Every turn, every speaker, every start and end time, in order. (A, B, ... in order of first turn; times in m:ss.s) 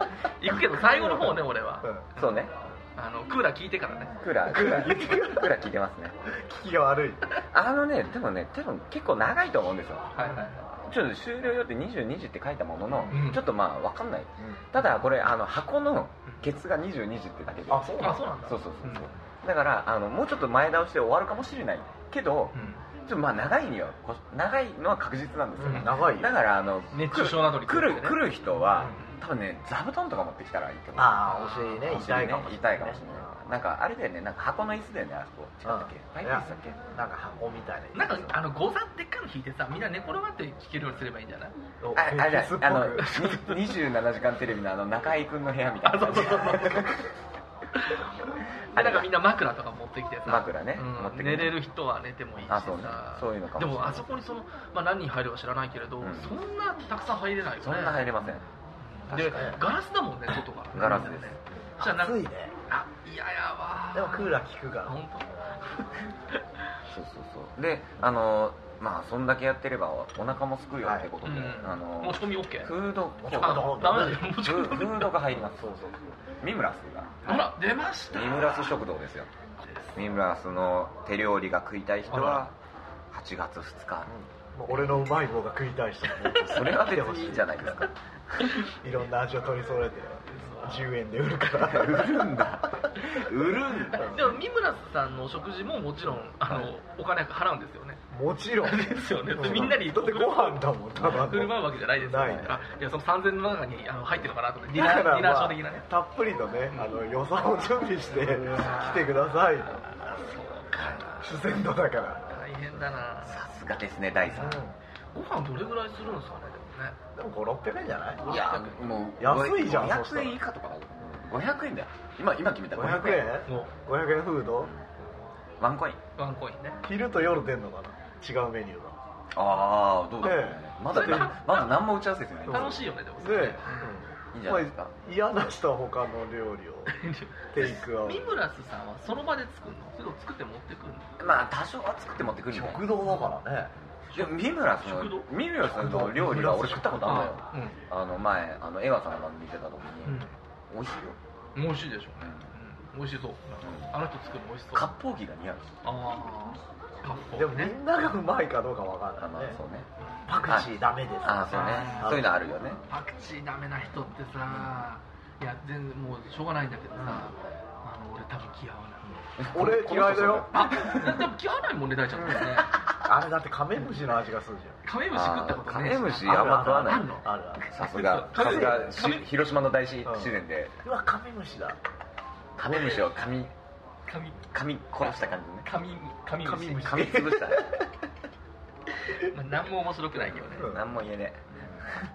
0:00.4-0:04.2 A
0:00.5-0:01.4 B
0:01.8-0:02.1 C
0:02.2-0:02.5 B
0:04.2-0:06.2 B
0:04.4-0:05.6 C
0:06.2-0:07.4 C
0:07.5-0:10.1 B
0:10.1-0:10.7 A
0:10.2-0:10.5 C
0:10.8-0:31.2 B
0:12.8-0:13.2 C
0:13.1-0:13.4 A
0:14.4-0:15.0 C
0:17.7-0:18.6 C
0:18.0-0:19.1 A
0:22.5-0:22.8 A
0:25.6-0:26.4 C
0:25.6-0:26.1 A
0:26.9-0:28.2 A
0:28.6-0:29.0 C
0:28.8-0:29.2 A
0:31.0-0:33.4 C
0:31.2-0:31.9 A
0:31.8-0:36.8 B
0:35.6-0:38.4 C
0:37.9-0:41.5 A
0:41.8-0:43.1 C
0:41.9-0:47.0 B
0:43.0-0:43.8 A
0:45.8-0:46.9 A
0:46.4-0:46.8 C
0:48.7-0:49.1 B
0:48.7-0:58.2 A
0:50.2-0:51.6 B
0:52.4-0:54.1 B
0:56.0-0:56.4 B
0:57.6-0:58.4 B
0:58.9-1:06.4 A
0:59.1-0:59.6 B
1:00.7-1:01.4 B
1:00.8-1:01.1 C
1:01.8-1:02.5 C
1:03.9-1:05.0 C
1:06.9-1:13.8 B
1:10.8-1:11.1 C
1:11.2-1:12.7 A
1:13.2-1:14.4 C
1:13.4-1:15.1 A
1:14.4-1:15.8 B
1:15.3-1:16.0 C
1:16.4-1:17.1 B
1:17.2-1:18.7 A
1:18.1-1:19.3 B
1:19.6-1:20.0 A
1:19.9-1:22.5 B
1:22.1-1:22.5 A
1:23.1-1:24.1 B
1:24.1-1:27.9 C
1:26.2-1:27.8 A
1:26.5-1:28.4 B
1:28.7-1:33.1 C
1:30.3-1:30.8 A
1:31.6-1:34.1 B
1:33.9-1:34.4 C
1:33.9-1:38.0 A
1:38.1-1:42.6 C
1:38.6-1:45.8 A
1:44.7-1:49.8 C
1:46.7-1:47.1 A
1:48.1-1:49.1 A
1:50.0-1:51.4 A
1:50.7-1:51.0 B
1:51.2-1:52.8 C
1:52.3-1:53.4 A
1:53.2-1:54.6 B
1:54.2-1:54.6 A
1:54.3-1:54.8 C
1:55.1-1:57.0 A
1:57.1-1:58.2 C
1:58.2-1:59.1 A
1:58.3-2:03.4 B
1:59.2-2:00.4 C
2:02.7-2:04.7 C
2:03.4-2:03.7 A
2:05.6-2:06.0 B
2:06.2-2:06.8 A
2:06.8-2:09.0 C
2:09.3-2:12.9 B
2:10.2-2:11.4 C
2:10.9-2:11.8 A
2:12.5-2:14.0 A
2:12.5-2:17.0 C
2:14.3-2:14.9 B
2:16.9-2:21.1 A
2:17.5-2:18.3 C
2:21.2-2:22.9 B
2:22.4-2:23.7 C
2:24.1-2:31.2 B
2:24.1-2:25.3 A
2:25.7-2:27.3 C
2:27.0-2:27.8 A
2:30.0-2:30.3 A
2:31.5-2:34.9 A
2:32.2-2:32.5 B
2:33.6-2:33.9 B
2:34.7-2:35.7 B
2:35.8-2:37.8 A
2:37.3-2:39.6 C
2:39.2-2:39.9 B
2:40.3-2:42.4 C
2:41.2-2:42.8 B
2:41.3-2:42.3 A
2:42.9-2:49.1 A
2:44.5-2:44.8 C
2:49.1-2:51.2 C
2:49.4-2:51.2 B
2:50.5-2:52.7 A
2:52.2-2:52.9 B
2:53.0-2:54.8 C
2:54.8-2:59.3 A
2:55.1-2:57.1 B
2:56.2-2:57.7 C
2:57.7-3:00.7 B
2:58.4-2:58.9 C
3:00.0-3:01.8 C
3:02.6-3:03.5 B
3:04.1-3:04.4 A
3:04.5-3:05.7 B
3:05.6-3:07.2 A
3:06.4-3:07.7 C
3:06.8-3:07.6 B
3:09.2-3:10.7 A
3:10.5-3:11.8 B
3:10.6-3:11.0 C